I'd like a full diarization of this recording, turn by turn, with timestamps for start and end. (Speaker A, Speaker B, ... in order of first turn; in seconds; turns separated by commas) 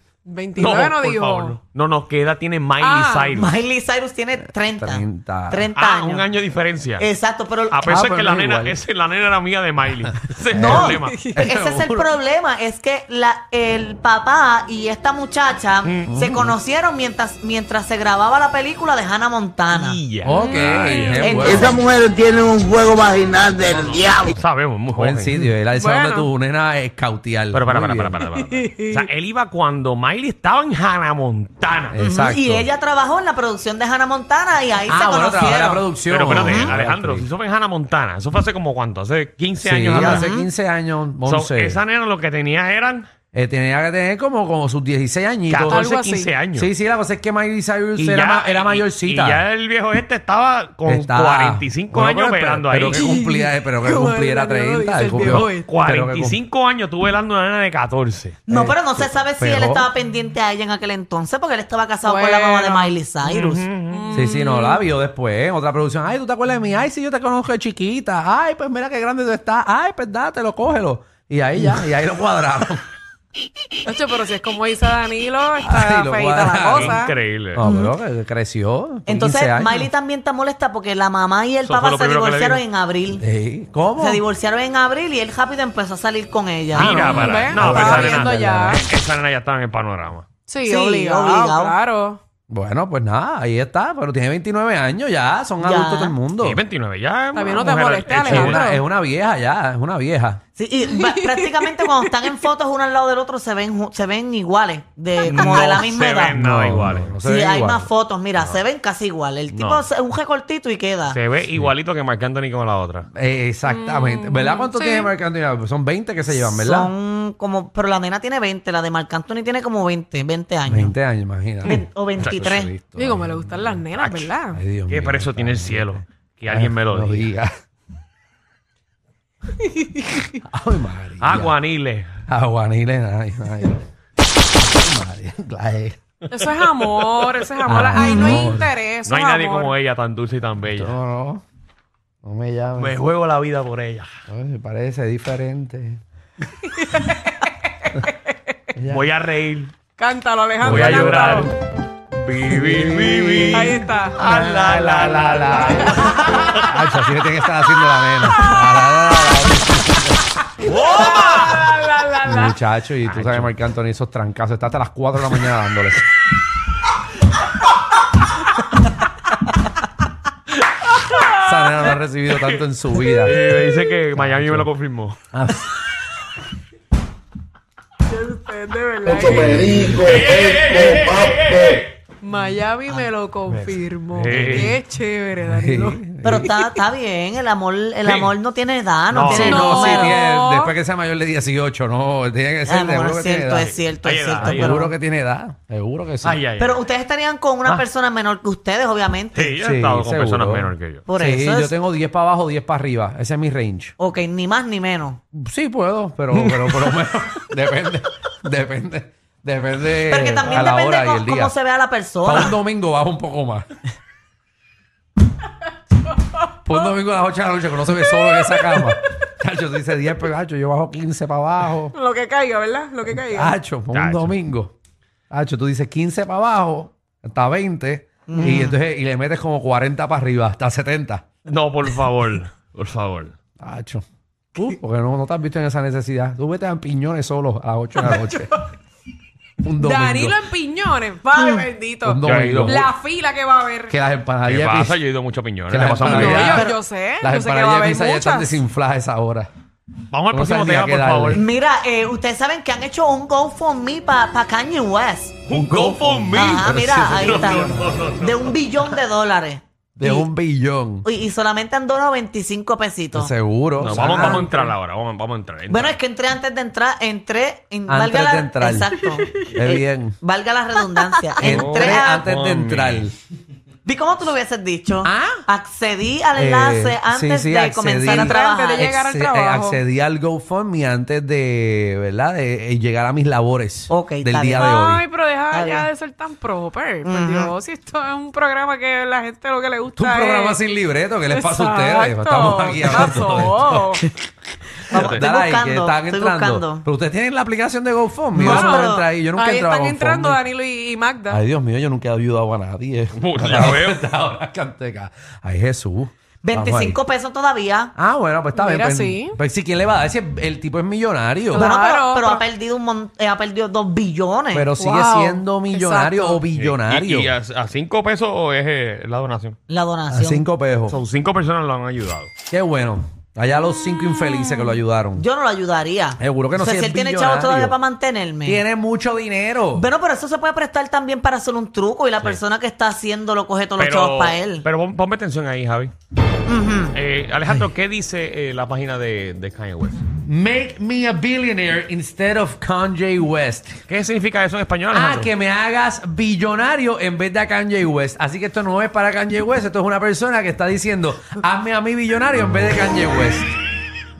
Speaker A: 0.2-1.6, Speaker B: 0.6-3.5, Speaker A: 2.8-3.4, Speaker C: 3.3-6.3, Speaker D: 4.7-5.7, Speaker B: 5.7-7.1, Speaker C: 7.0-7.9, Speaker B: 7.7-11.2, Speaker D: 7.9-8.8, Speaker D: 10.5-12.1, Speaker C: 10.5-20.0, Speaker A: 11.0-11.4, Speaker B: 15.8-16.2, Speaker D: 16.1-16.5, Speaker B: 19.7-21.5, Speaker D: 20.2-21.8, Speaker A: 20.3-21.4, Speaker C: 21.2-21.9, Speaker E: 21.4-24.3, Speaker B: 23.5-25.3, Speaker D: 24.9-28.2, Speaker A: 25.8-26.3, Speaker B: 27.5-32.0, Speaker A: 28.3-29.1, Speaker D: 31.9-32.7, Speaker C: 32.0-36.7, Speaker D: 34.9-37.3, Speaker B: 36.1-40.3, Speaker D: 39.6-41.8, Speaker C: 39.9-40.5, Speaker B: 41.2-43.1, Speaker D: 43.3-45.9, Speaker B: 45.5-46.7, Speaker A: 45.7-46.3, Speaker D: 46.5-49.4, Speaker B: 48.0-53.0, Speaker D: 50.8-56.4, Speaker A: 52.9-55.7, Speaker B: 55.4-58.4, Speaker C: 58.5-63.7, Speaker D: 58.5-59.9, Speaker A: 62.0-63.0, Speaker B: 63.2-64.1, Speaker A: 63.9-64.8, Speaker D: 64.1-72.8, Speaker A: 73.8-77.2, Speaker D: 75.6-77.0, Speaker B: 76.6-77.6, Speaker D: 77.5-79.9, Speaker C: 77.6-77.9, Speaker C: 79.1-83.2, Speaker B: 81.6-82.6, Speaker D: 83.2-84.2, Speaker C: 84.0-87.0, Speaker B: 86.7-90.2, Speaker D: 86.7-88.8, Speaker A: 86.9-88.8, Speaker A: 90.5-92.2, Speaker C: 90.6-91.7, Speaker D: 92.5-96.6, Speaker C: 95.6-96.2, Speaker B: 96.4-98.7, Speaker A: 97.3-98.8, Speaker D: 98.2-100.4, Speaker C: 100.5-106.4, Speaker A: 100.8-102.5, Speaker B: 105.2-107.2, Speaker D: 105.4-107.9, Speaker C: 107.2-111.2, Speaker B: 109.5-109.8, Speaker B: 111.1-113.1, Speaker D: 113.1-116.9, Speaker A: 113.7-115.1, Speaker C: 116.3-121.0, Speaker D: 120.7-123.8, Speaker C: 121.6-122.7, Speaker A: 123.0-124.6, Speaker B: 123.9-124.3, Speaker D: 124.5-127.5, Speaker B: 124.9-127.3, Speaker D: 130.4-131.6, Speaker B: 131.2-132.1, Speaker D: 132.3-133.8, Speaker D: 134.6-136.0, Speaker A: 136.3-139.7, Speaker B: 136.3-137.3, Speaker D: 137.6-138.7, Speaker C: 137.9-138.6, Speaker B: 139.0-140.9, Speaker D: 140.7-141.4, Speaker D: 142.2-142.9, Speaker B: 142.8-144.1, Speaker D: 144.3-146.0, Speaker A: 146.7-148.2, Speaker D: 148.7-149.1, Speaker B: 148.9-149.7, Speaker A: 150.0-151.5, Speaker D: 150.6-151.5, Speaker B: 150.6-151.5, Speaker B: 152.1-156.9, Speaker D: 152.5-160.2, Speaker A: 153.5-154.2, Speaker A: 156.1-156.6, Speaker A: 158.3-158.6, Speaker B: 160.6-161.7, Speaker A: 160.9-162.6, Speaker D: 162.2-166.1, Speaker B: 163.0-163.5, Speaker D: 171.3-173.4, Speaker B: 173.2-175.2, Speaker D: 174.2-174.7, Speaker D: 175.3-175.7, Speaker A: 178.1-179.8, Speaker D: 179.3-179.8, Speaker E: 179.3-181.3, Speaker B: 179.8-181.9, Speaker A: 182.2-186.8, Speaker B: 184.1-184.8, Speaker D: 184.3-184.8, Speaker D: 185.5-186.5, Speaker C: 186.2-190.2, Speaker B: 188.0-188.3, Speaker B: 189.1-189.6, Speaker D: 189.2-193.8, Speaker A: 189.4-190.7, Speaker C: 192.7-194.9, Speaker B: 193.9-194.9, Speaker D: 194.4-196.4, Speaker B: 196.2-196.8, Speaker C: 196.6-199.5, Speaker B: 199.3-201.1, Speaker D: 199.6-203.9, Speaker C: 201.1-201.7, Speaker C: 204.0-205.2, Speaker D: 205.3-211.5, Speaker B: 206.3-206.9, Speaker C: 210.1-212.6, Speaker D: 212.2-213.7, Speaker D: 216.6-221.9, Speaker A: 221.9-223.5, Speaker D: 223.1-224.7, Speaker B: 223.9-224.3, Speaker D: 225.3-231.2, Speaker C: 228.3-228.8, Speaker B: 231.4-233.3, Speaker D: 233.6-234.0, Speaker D: 234.5-238.5, Speaker A: 238.1-238.7, Speaker D: 239.6-240.4, Speaker A: 239.8-243.9, Speaker C: 241.4-241.7, Speaker D: 242.0-242.9, Speaker B: 242.2-242.8, Speaker D: 243.9-245.0, Speaker B: 244.4-246.6, Speaker D: 245.7-249.5, Speaker A: 246.0-248.6, Speaker C: 246.1-246.7, Speaker B: 250.1-251.4, Speaker D: 250.3-251.4, Speaker C: 251.3-255.4, Speaker B: 255.5-259.0, Speaker D: 255.5-257.8, Speaker C: 256.3-260.3, Speaker D: 260.0-261.1, Speaker C: 261.0-263.3, Speaker D: 263.1-264.7, Speaker B: 263.8-266.0, Speaker C: 263.9-264.5, Speaker C: 265.7-272.2, Speaker D: 267.9-270.2, Speaker D: 271.4-273.1, Speaker B: 271.4-273.1, Speaker C: 273.9-278.9, Speaker D: 275.0-275.4, Speaker D: 276.3-285.0, Speaker A: 278.1-279.8, Speaker C: 283.9-284.7, Speaker A: 284.6-290.6, Speaker C: 285.5-285.9, Speaker C: 287.0-287.5, Speaker D: 290.0-294.0, Speaker A: 291.3-294.0, Speaker C: 292.8-293.1, Speaker B: 294.9-295.2, Speaker C: 294.9-296.8, Speaker D: 294.9-300.4, Speaker C: 298.4-299.1, Speaker A: 298.4-301.4, Speaker D: 301.3-307.0, Speaker B: 303.1-304.1, Speaker C: 306.4-307.9, Speaker D: 307.9-311.7, Speaker A: 308.5-309.4, Speaker A: 311.5-312.4, Speaker C: 311.6-314.7, Speaker D: 314.5-317.3, Speaker A: 314.8-316.4, Speaker B: 316.5-319.6, Speaker C: 319.7-320.4, Speaker D: 320.1-321.0, Speaker B: 320.9-322.3, Speaker D: 322.5-325.2, Speaker C: 325.1-328.6, Speaker D: 326.2-327.8, Speaker D: 328.4-329.9, Speaker C: 329.7-334.6, Speaker B: 333.8-335.9, Speaker C: 336.5-336.9, Speaker B: 336.9-340.0, Speaker D: 340.2-343.8, Speaker B: 343.9-345.3, Speaker D: 344.9-353.6